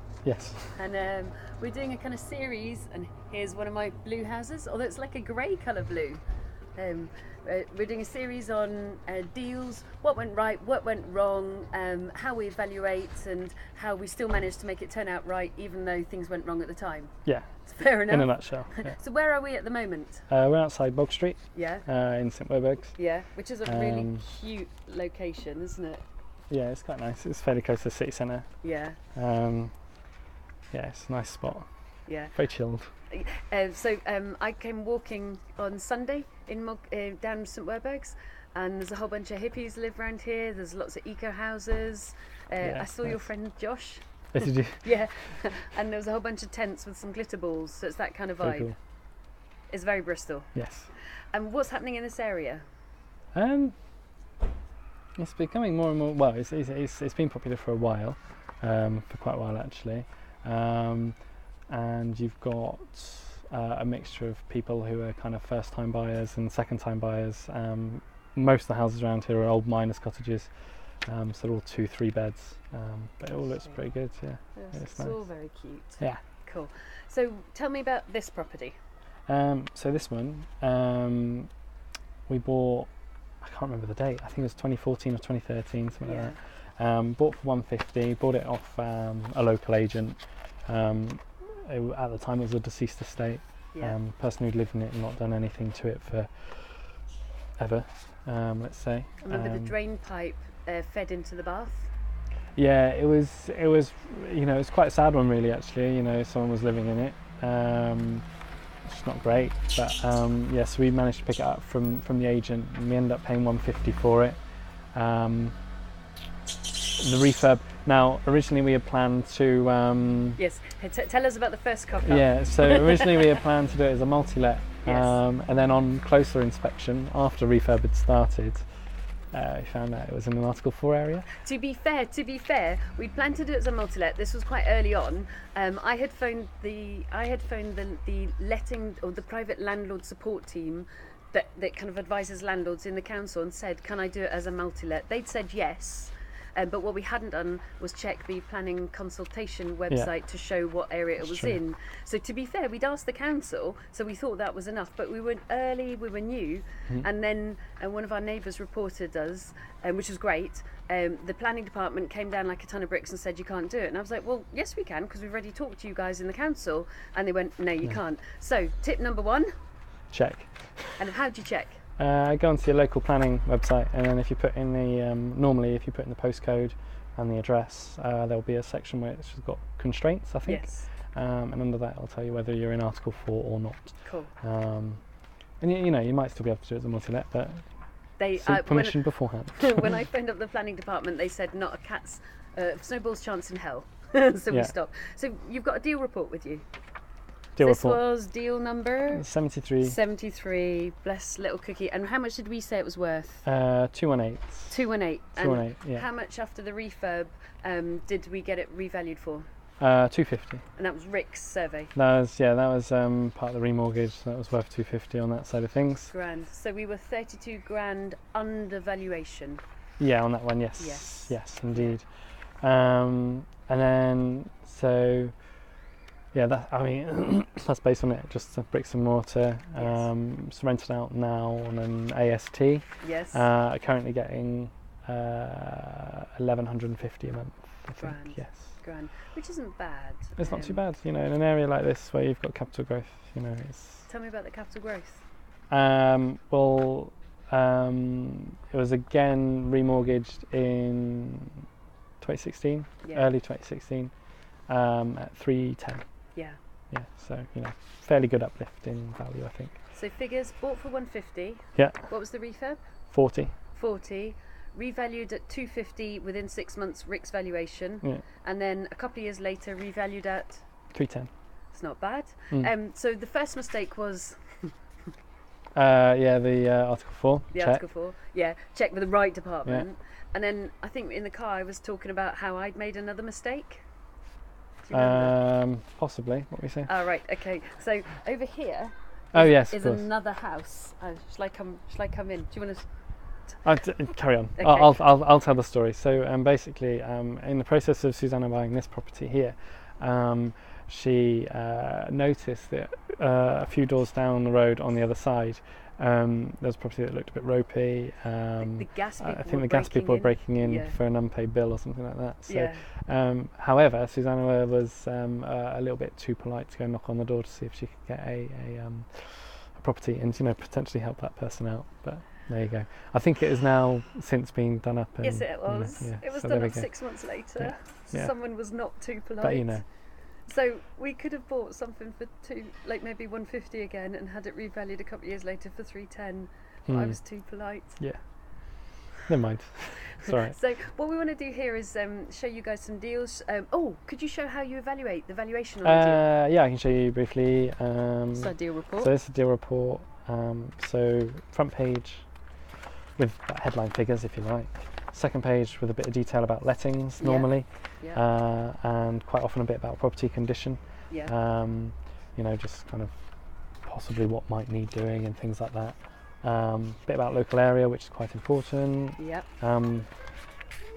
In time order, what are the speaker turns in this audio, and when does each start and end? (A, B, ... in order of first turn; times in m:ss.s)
0:00.2-0:00.7 A
0:00.7-0:06.2 B
0:06.7-0:20.3 B
0:17.2-0:19.0 A
0:20.3-0:24.3 A
0:21.5-0:21.9 B
0:23.0-0:26.0 B
0:26.5-0:30.1 A
0:28.6-0:29.0 B
0:30.7-0:32.9 A
0:32.0-0:48.8 B
0:42.6-0:45.2 A
0:48.4-0:48.8 A
0:49.7-0:52.6 B
0:50.5-0:50.9 A
0:53.3-0:53.9 A
0:55.2-1:16.2 A
1:13.4-1:13.8 B
1:14.5-1:18.8 B
1:19.3-1:21.5 A
1:22.3-1:39.7 A
1:26.0-1:26.4 B
1:39.2-1:41.9 B
1:42.6-1:48.2 A
1:48.8-1:54.4 A
1:54.9-1:55.6 A
1:57.0-2:00.4 A
2:00.4-2:03.2 B
2:02.0-2:11.3 A
2:04.8-2:05.2 B
2:11.3-2:49.5 B
2:31.2-2:31.6 A
2:50.1-2:51.0 A
2:51.0-2:51.8 B
2:52.0-3:10.0 A
3:00.4-3:00.9 B
3:04.0-3:04.3 B
3:08.2-3:16.6 B
3:17.5-3:18.0 A
3:17.6-3:19.2 B
3:19.1-3:20.0 A
3:19.8-3:23.4 B
3:23.4-3:24.8 A
3:24.7-3:29.5 B
3:25.4-3:26.0 A
3:29.8-3:30.6 A
3:30.8-3:31.9 B
3:31.9-3:36.1 A
3:36.1-3:39.6 B
3:40.0-3:45.5 A
3:40.8-3:42.0 B
3:46.3-3:58.8 A
3:49.8-3:50.1 B
3:53.0-3:53.5 B
3:58.0-4:00.8 B
4:00.4-4:04.1 A
4:04.1-4:05.2 B
4:05.7-4:11.5 A
4:12.2-4:16.4 A
4:13.0-4:13.3 B
4:16.9-4:19.8 A
4:19.9-4:23.1 B
4:21.8-4:22.5 A
4:23.1-4:23.5 A
4:23.7-4:30.7 B
4:30.9-4:31.3 A
4:31.7-4:34.8 B
4:35.7-4:37.9 A
4:37.5-4:43.9 B
4:44.8-4:45.3 B
4:44.9-4:46.9 A
4:46.8-4:53.8 B
4:49.3-4:50.1 A
4:53.6-5:29.9 A
4:54.6-4:54.9 B
5:08.6-5:11.0 B
5:12.4-5:12.8 B
5:25.2-5:38.2 B
5:36.9-5:40.6 A
5:40.3-5:46.3 B
5:45.8-5:52.6 A
5:48.3-5:49.1 B
5:53.2-6:10.3 A
5:57.2-5:58.2 B
6:09.2-6:09.5 B